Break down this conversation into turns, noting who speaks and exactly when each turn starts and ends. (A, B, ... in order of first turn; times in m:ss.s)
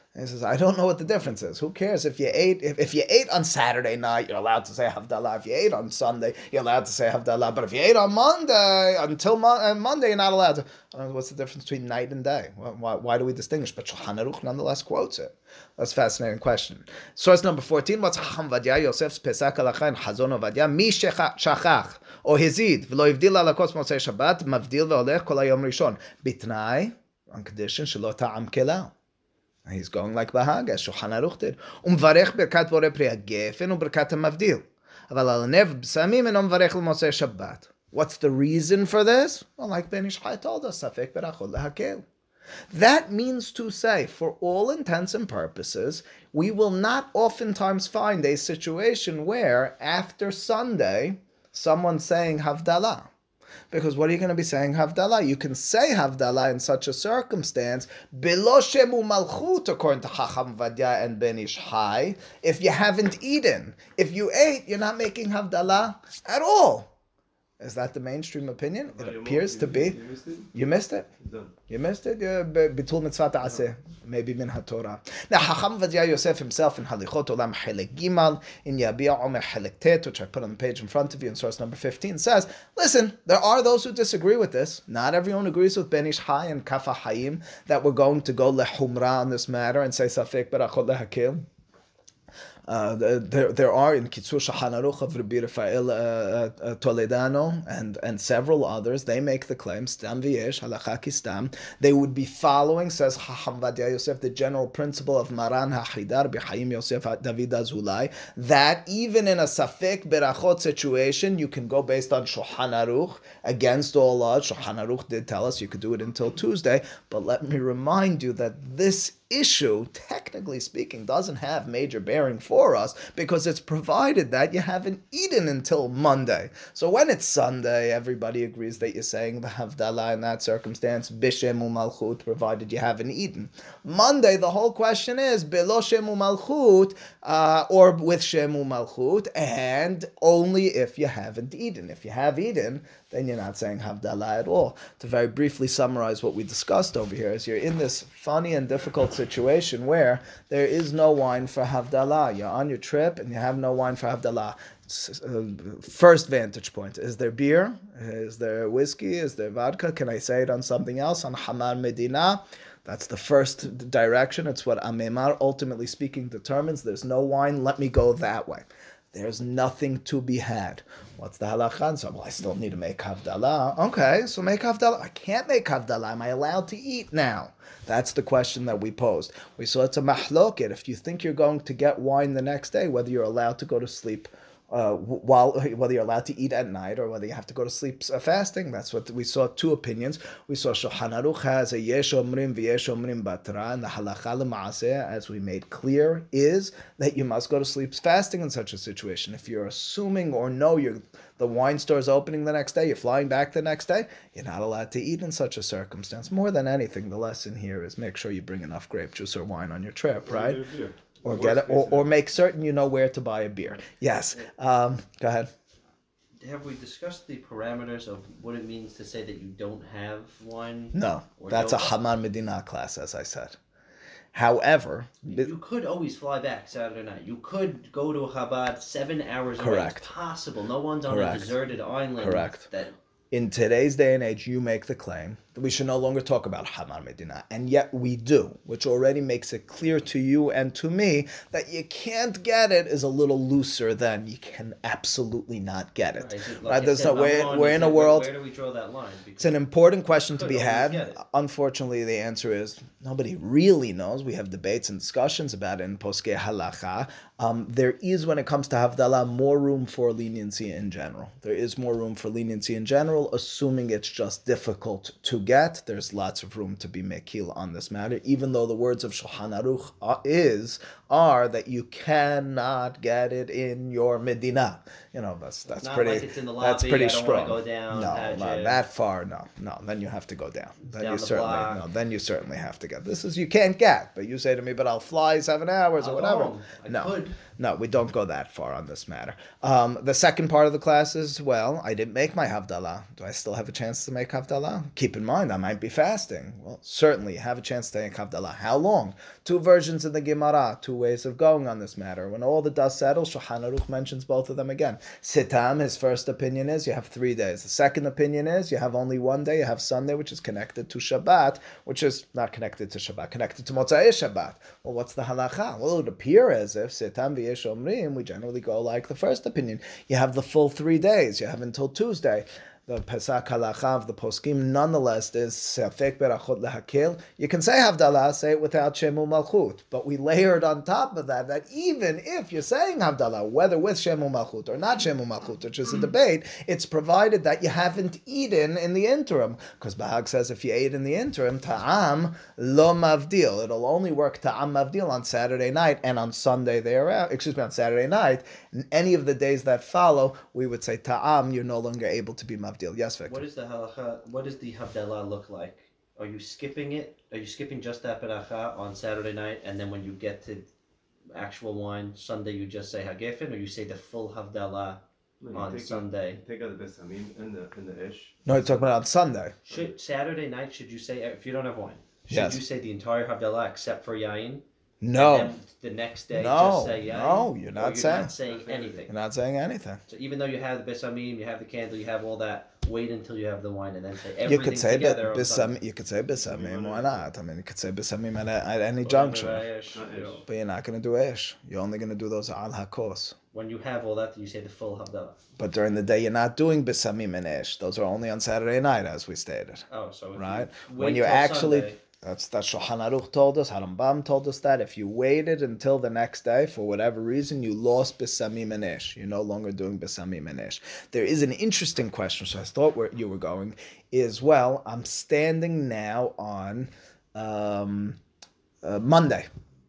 0:00.2-0:28.9 A
0:29.7-0:42.0 A
0:42.7-0:53.1 A
0:53.7-1:06.9 A
1:07.6-1:10.0 A
1:08.9-1:10.5 B
1:10.5-1:11.1 A
1:11.2-1:11.5 B
1:11.7-1:31.4 A
1:32.7-3:30.6 A
3:30.2-3:32.1 B
3:31.2-3:35.5 A
3:36.4-3:41.9 C
3:40.9-3:43.6 A
3:44.3-3:45.5 A
3:45.3-3:52.9 C
3:49.6-3:50.1 A
3:51.1-3:51.6 A
3:52.2-3:52.6 A
3:53.3-4:08.3 A
4:06.2-4:09.6 C
4:09.4-5:53.4 A
4:10.3-4:11.2 C
4:35.8-4:38.8 C
4:41.0-4:41.8 C
4:46.0-4:47.4 C
5:53.2-6:00.7 C
6:01.3-6:05.0 C
6:05.4-6:08.8 B
6:05.5-6:06.4 C
6:08.5-6:09.6 A
6:09.7-6:09.9 B
6:09.7-6:19.1 C
6:12.3-6:12.6 A
6:15.0-6:15.6 A
6:16.3-6:18.3 A
6:18.3-6:19.0 B
6:19.1-6:20.0 A
6:20.1-6:25.8 C
6:24.4-6:29.7 A
6:26.4-6:27.3 B
6:29.0-6:30.4 C
6:29.9-6:30.4 B
6:30.5-6:33.4 A
6:33.5-6:35.4 C
6:35.6-6:58.2 A
6:39.9-6:42.0 C
6:58.8-6:59.5 A